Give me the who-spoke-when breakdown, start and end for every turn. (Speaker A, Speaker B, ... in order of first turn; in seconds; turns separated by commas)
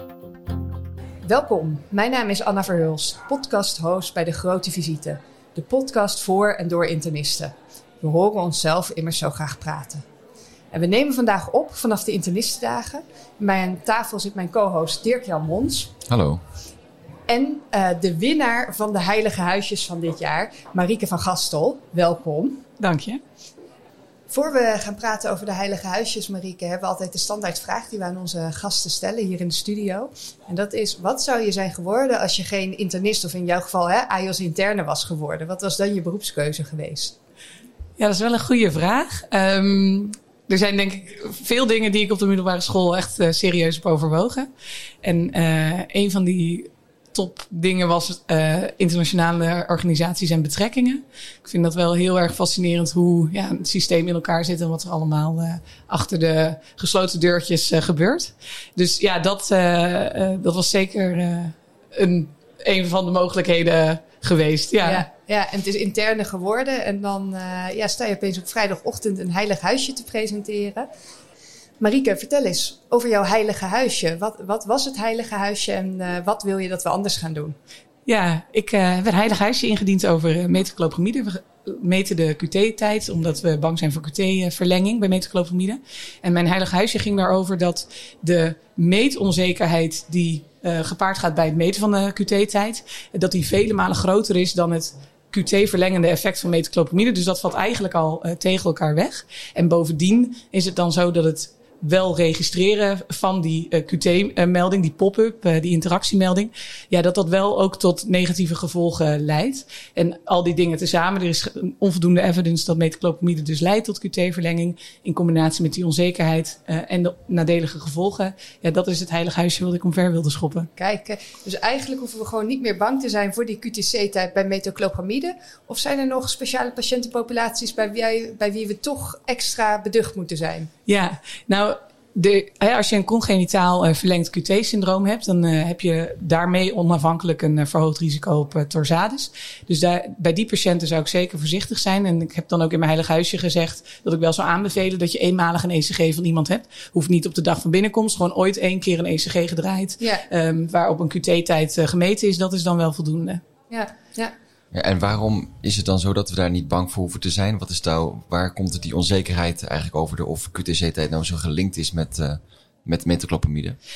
Speaker A: 1.2-10.0, Speaker A: 10.7-16.0, Speaker B: 16.1-16.4, Speaker A: 17.3-22.6, Speaker C: 22.8-23.2, Speaker A: 24.3-37.1, Speaker C: 38.0-44.5, Speaker C: 45.0-65.1, Speaker A: 64.8-70.9, Speaker A: 71.8-77.5, Speaker C: 78.1-120.7, Speaker A: 120.8-130.7, Speaker C: 130.9-153.4, Speaker A: 153.7-154.3, Speaker B: 154.7-163.8